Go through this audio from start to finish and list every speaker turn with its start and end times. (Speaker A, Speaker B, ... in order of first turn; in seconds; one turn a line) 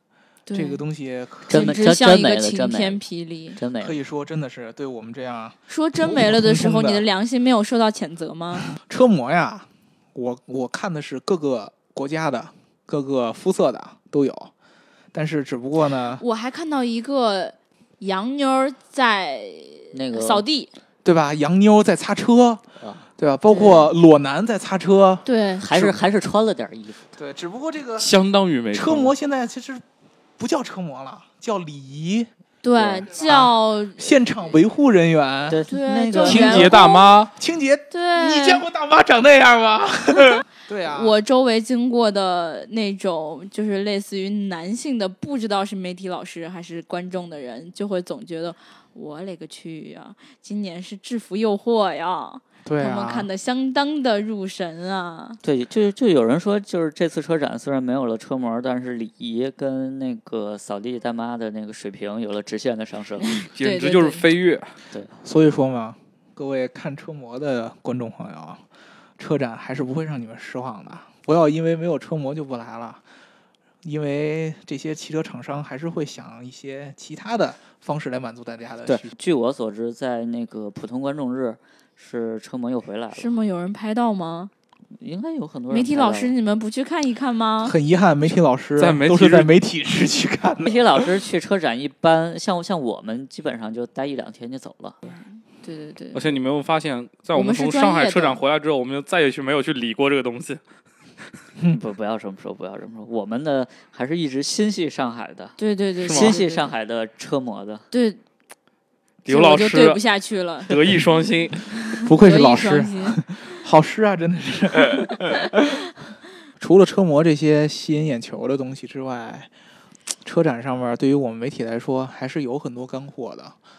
Speaker A: 0.5-0.8
Speaker B: 0.5-1.8
Speaker C: 1.5-3.0
Speaker A: 1.5-3.6
Speaker C: 3.5-4.0
Speaker B: 3.8-7.0
Speaker A: 5.7-8.6
Speaker B: 8.7-14.5
Speaker B: 15.1-16.2
Speaker A: 16.2-20.7
Speaker C: 19.9-20.4
Speaker B: 21.0-22.6
Speaker C: 22.8-23.0
Speaker B: 23.2-26.0
Speaker A: 23.5-23.9
Speaker A: 25.2-25.6
Speaker C: 25.6-27.1
Speaker B: 27.1-28.1
Speaker D: 28.0-29.1
Speaker B: 28.7-29.8
Speaker B: 30.4-32.3
Speaker A: 32.6-34.1
Speaker C: 32.8-33.1
Speaker B: 33.1-36.8
Speaker C: 35.5-36.8
Speaker A: 35.7-37.1
Speaker D: 36.2-37.3
Speaker B: 37.4-41.1
Speaker A: 37.9-38.6
Speaker A: 40.9-55.4
Speaker B: 52.6-53.3
Speaker C: 55.4-63.4
Speaker A: 63.2-64.2
Speaker D: 63.5-64.7
Speaker B: 65.2-68.6
Speaker B: 69.2-73.0
Speaker B: 73.8-79.1
Speaker C: 78.8-83.4
Speaker A: 83.1-84.5
Speaker C: 84.9-86.3
Speaker A: 85.7-87.7
Speaker B: 87.6-91.0
Speaker D: 88.8-89.5
Speaker C: 90.6-95.0
Speaker A: 95.1-96.2
Speaker D: 96.1-100.6
Speaker A: 97.3-98.4
Speaker C: 101.7-105.5
Speaker A: 105.6-106.7
Speaker D: 106.0-106.4
Speaker C: 106.1-107.8
Speaker A: 107.9-108.2
Speaker D: 109.2-110.0
Speaker A: 109.3-110.7
Speaker D: 110.7-111.7
Speaker B: 112.0-115.8
Speaker A: 112.1-113.2
Speaker B: 116.6-119.5
Speaker B: 120.2-123.5